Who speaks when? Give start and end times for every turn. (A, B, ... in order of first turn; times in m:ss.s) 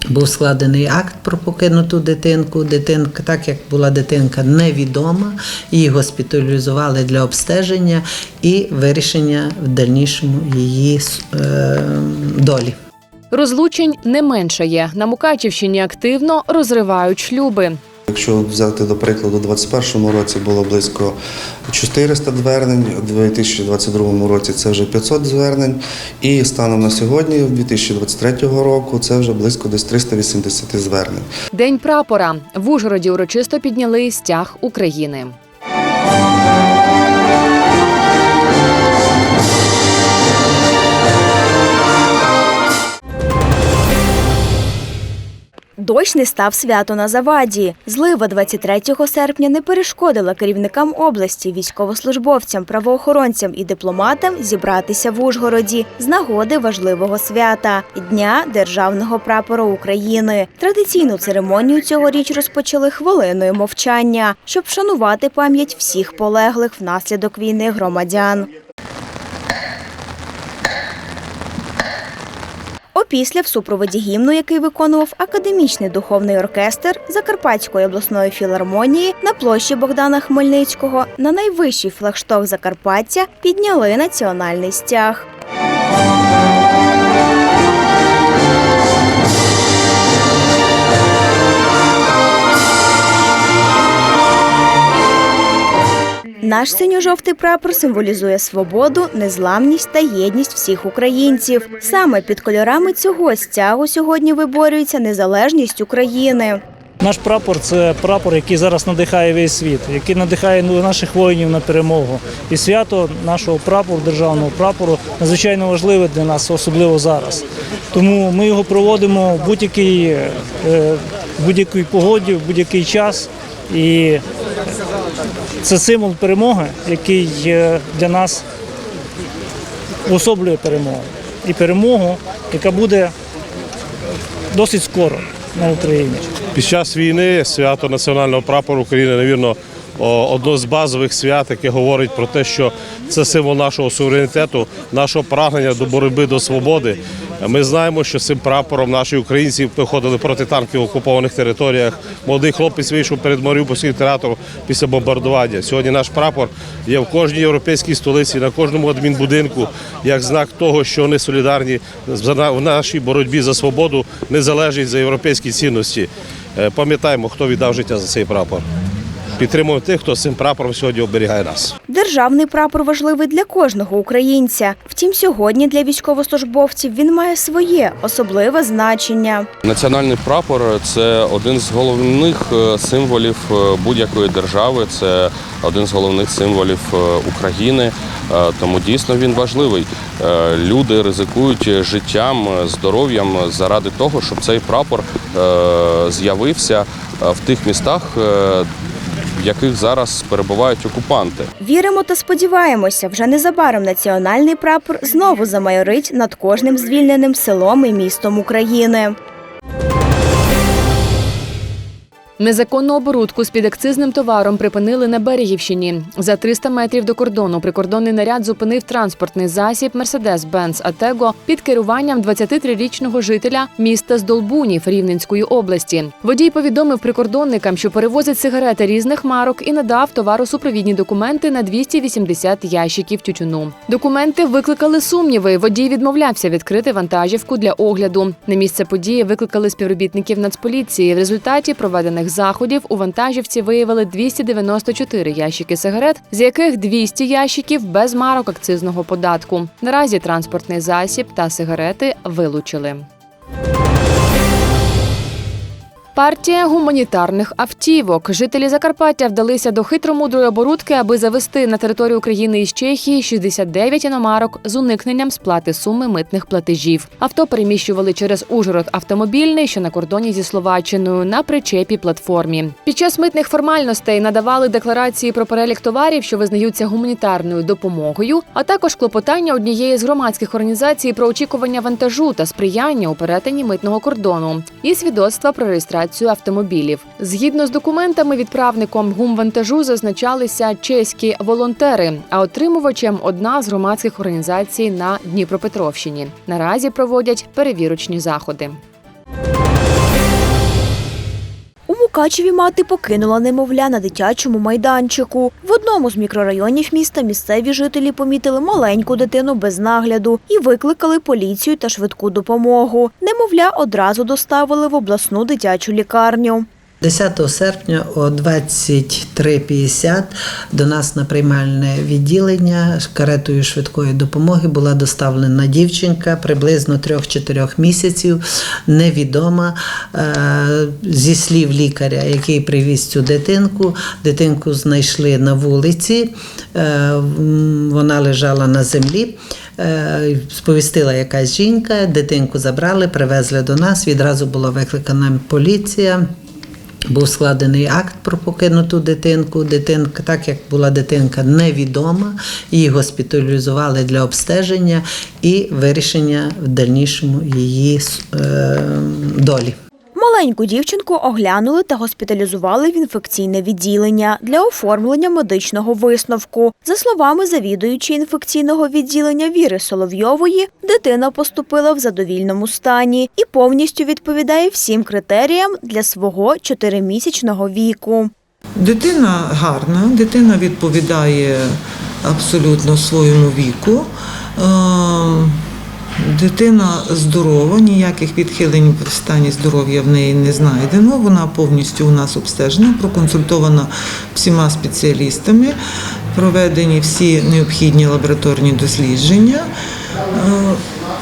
0:00.1-0:12.8 A
0:13.3-0:17.8 B
0:18.1-0:21.2 C
0:21.7-0:31.3 C
0:31.5-0:35.4 B
0:45.8-1:08.5 D
1:13.0-1:25.3 D
1:36.4-1:46.6 D
1:47.0-2:04.2 E
2:05.6-2:08.4 E
2:10.1-2:13.1 E
2:14.5-2:16.3 E
2:16.5-2:48.6 F
2:49.4-2:51.7 F
2:51.9-2:59.5 D
2:59.6-3:18.7 G
3:19.4-3:21.5 G
3:21.6-3:29.2 D
3:32.4-4:13.1 B
4:16.1-4:58.8 B
5:01.9-5:16.6 D
5:17.0-5:46.2 A
5:47.1-5:59.8 A
6:00.1-6:18.3 D
6:18.8-6:25.6 H
6:26.2-6:35.8 H
6:36.3-6:39.7 H
6:40.3-6:40.8 H